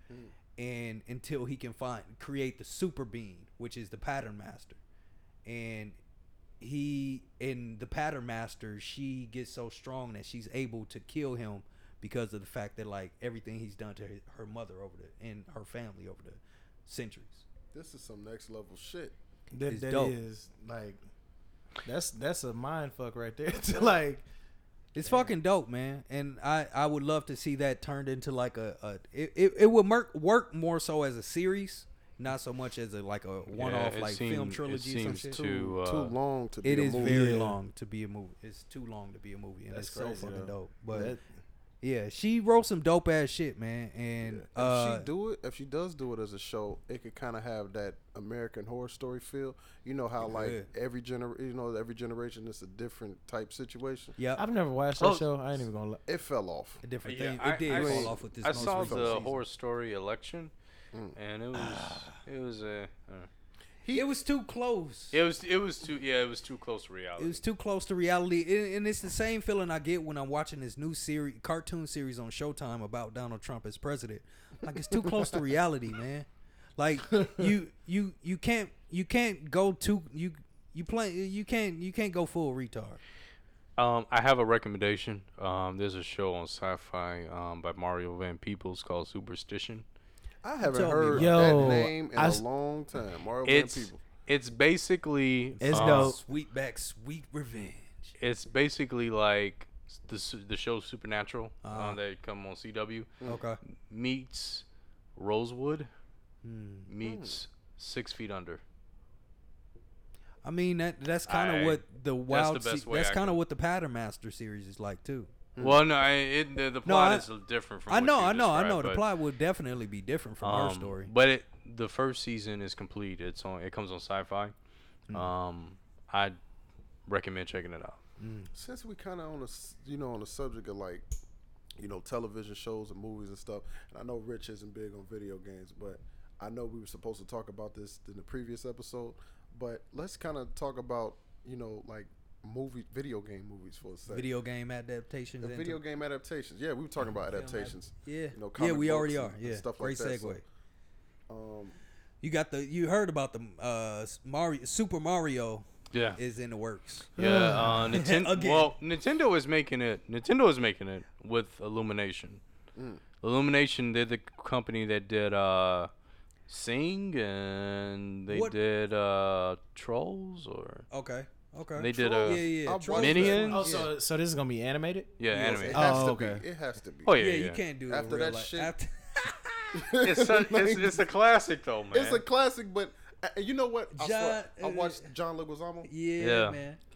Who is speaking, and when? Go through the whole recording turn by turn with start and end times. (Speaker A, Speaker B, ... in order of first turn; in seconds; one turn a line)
Speaker A: 0.1-0.3
Speaker B: 0.6-4.8
Speaker B: 5.5-6.0
Speaker B: 6.6-17.4
Speaker A: 17.7-19.1
Speaker C: 19.5-21.0
Speaker B: 19.7-20.2
Speaker C: 21.8-24.2
Speaker B: 24.9-35.4
Speaker D: 33.5-36.1
Speaker A: 35.4-37.2
Speaker B: 36.6-41.1
Speaker C: 37.0-37.6
Speaker C: 39.7-41.2
Speaker B: 41.8-45.1
Speaker A: 44.2-54.1
Speaker B: 50.2-50.7
Speaker B: 54.2-54.4
Speaker C: 54.4-56.0
Speaker A: 56.1-56.8
Speaker B: 56.8-59.3
Speaker D: 57.0-60.5
Speaker A: 57.7-59.4
Speaker D: 61.1-63.3
Speaker C: 61.5-62.1
Speaker A: 63.8-64.2
Speaker B: 63.9-65.2
Speaker D: 65.1-67.4
Speaker B: 67.2-76.3
Speaker B: 76.8-83.0
Speaker D: 83.8-89.8
Speaker A: 90.4-94.0
Speaker B: 90.6-91.8
Speaker C: 91.1-92.4
Speaker D: 93.4-96.2
Speaker C: 95.6-96.2
Speaker B: 95.7-98.1
Speaker D: 98.2-103.1
Speaker B: 101.6-102.0
Speaker B: 103.2-103.6
Speaker D: 103.9-104.7
Speaker D: 105.2-105.9
Speaker B: 106.4-106.9
Speaker D: 106.9-108.6
Speaker A: 107.0-107.4
Speaker B: 110.4-115.3
Speaker D: 111.3-113.4
Speaker A: 115.6-115.8
Speaker D: 115.6-119.0
Speaker B: 116.8-117.3
Speaker B: 117.9-121.1
Speaker D: 120.4-124.5
Speaker D: 125.1-126.4
Speaker D: 127.1-128.0
Speaker B: 128.2-128.5
Speaker A: 128.5-131.1
Speaker A: 131.8-144.3
Speaker B: 144.1-145.8
Speaker A: 145.4-150.4
Speaker B: 147.3-150.4
Speaker A: 151.3-151.8
Speaker B: 152.2-158.7
Speaker D: 155.9-156.2
Speaker C: 157.2-158.0
Speaker D: 157.2-162.4
Speaker A: 162.8-163.0
Speaker D: 163.2-165.9
Speaker D: 166.5-170.9
Speaker B: 168.3-168.6
Speaker B: 170.9-173.9
Speaker D: 171.8-173.7
Speaker A: 171.9-173.9
Speaker C: 173.5-175.1
Speaker D: 175.2-175.9
Speaker A: 175.3-177.2
Speaker C: 175.7-176.4
Speaker D: 177.0-177.6
Speaker B: 177.2-179.8
Speaker A: 177.9-178.7
Speaker A: 179.7-181.1
Speaker D: 180.0-182.2
Speaker A: 181.9-185.9
Speaker B: 183.9-185.1
Speaker B: 185.8-186.8
Speaker D: 186.2-186.6